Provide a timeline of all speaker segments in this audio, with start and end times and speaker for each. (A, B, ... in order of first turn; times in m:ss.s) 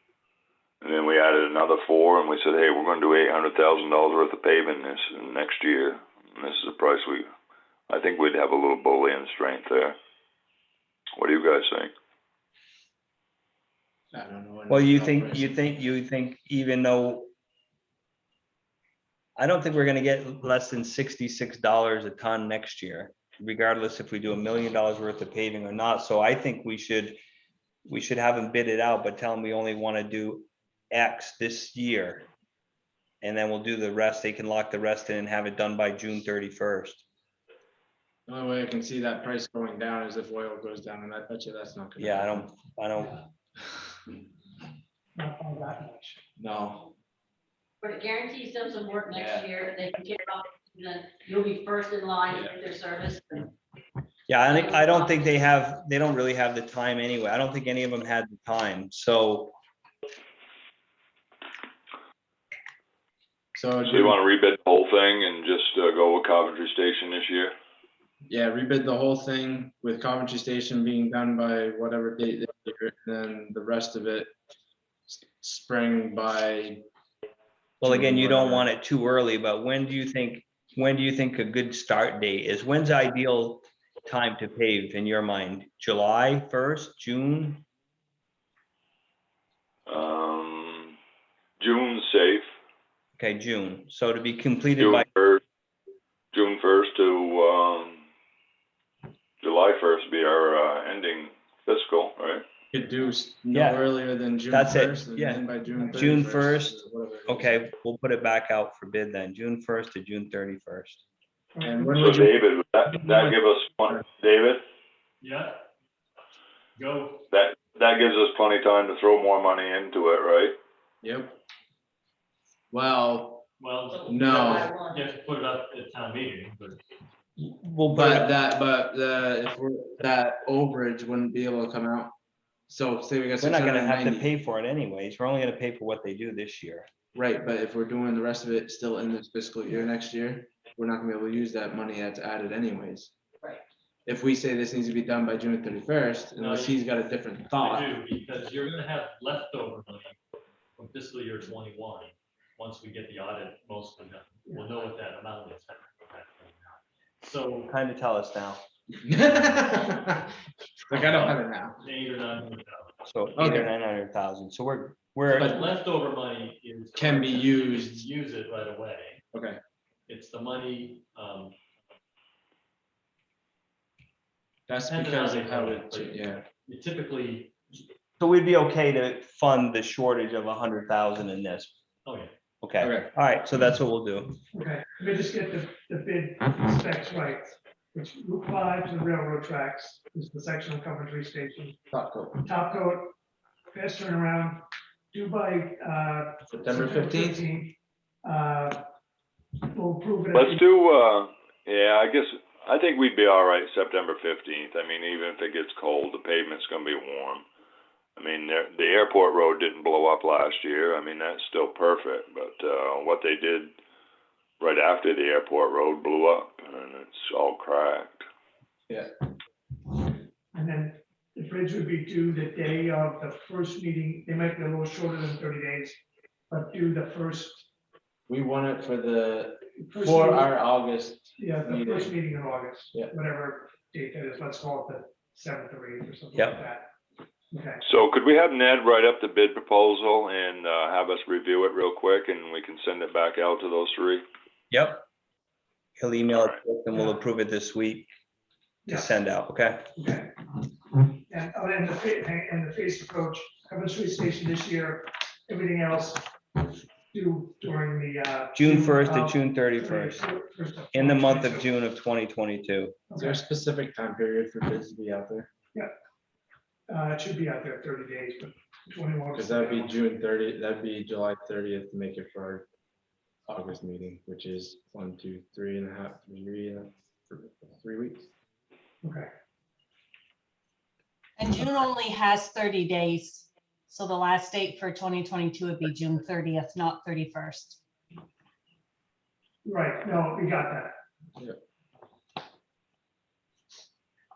0:00.8-0:07.3 A
0:07.9-0:10.0 A
0:11.2-0:11.9 A
0:14.1-0:15.6 B
0:14.7-0:17.3 C
0:19.4-0:27.2 C
0:27.8-0:32.3 C
0:33.2-0:37.0 C
0:38.3-0:42.5 B
0:42.0-0:43.2 C
0:45.2-0:46.2 D
0:46.4-0:46.9 B
0:47.8-0:53.5 E
0:49.1-0:49.5 B
0:52.3-0:52.5 B
0:54.3-0:59.5 C
0:54.5-0:55.2 E
1:03.5-1:04.2 B
1:03.8-1:07.5 A
1:08.3-1:14.3 B
1:15.1-1:16.8 B
1:17.8-1:18.7 B
1:17.8-1:27.6 C
1:29.9-1:31.0 A
1:31.6-1:32.5 A
1:33.2-1:35.0 C
1:34.8-1:35.4 A
1:36.3-1:38.0 A
1:39.4-1:42.4 A
1:42.7-1:47.6 B
1:43.5-1:43.8 C
1:44.5-1:51.0 C
1:45.8-1:46.1 D
1:51.5-1:51.9 D
1:51.6-1:52.4 B
1:51.9-1:54.6 A
1:55.2-1:55.6 F
1:56.8-1:57.3 F
1:57.3-2:00.6 A
2:01.0-2:01.4 B
2:02.7-2:03.4 B
2:03.6-2:06.8 F
2:04.1-2:04.7 B
2:04.1-2:05.0 E
2:07.4-2:08.3 C
2:07.9-2:12.1 B
2:12.7-2:14.3 B
2:13.4-2:16.9 C
2:17.1-2:23.1 B
2:24.0-2:27.9 B
2:26.4-2:26.8 F
2:27.5-2:30.2 F
2:30.8-2:37.7 F
2:37.7-2:38.6 C
2:39.0-2:41.8 B
2:40.9-2:42.9 F
2:43.0-2:45.6 C
2:43.4-2:43.7 B
2:45.3-2:49.2 F
2:45.3-2:45.7 B
2:46.9-2:48.1 B
2:49.3-2:49.6 B
2:50.1-2:51.6 F
2:54.7-2:56.4 B
2:54.8-2:57.5 F
2:58.2-3:01.7 C
3:02.0-3:02.3 F
3:02.6-3:04.4 C
3:02.8-3:03.1 B
3:04.5-3:11.8 D
3:11.9-3:12.4 B
3:12.4-3:13.1 D
3:13.7-3:18.9 D
3:16.5-3:17.4 B
3:19.7-3:20.6 D
3:20.3-3:27.4 A
3:28.2-3:33.7 A
3:34.6-3:38.2 A
3:40.5-3:47.7 D
3:48.3-3:52.1 B
3:49.8-3:50.5 D
3:51.4-3:56.9 D
3:57.5-3:57.8 D
3:57.8-4:04.2 A
4:04.7-4:05.0 C
4:06.0-4:08.1 C
4:08.9-4:09.9 C
4:10.0-4:10.3 D
4:11.1-4:21.7 D
4:18.5-4:20.2 C
4:20.9-4:23.0 C
4:23.1-4:23.4 D
4:23.2-4:25.5 B
4:26.9-4:30.0 D
4:29.3-4:32.6 B
4:33.5-4:38.3 B
4:39.0-4:39.3 D
4:41.4-4:47.8 G
4:49.6-4:51.0 D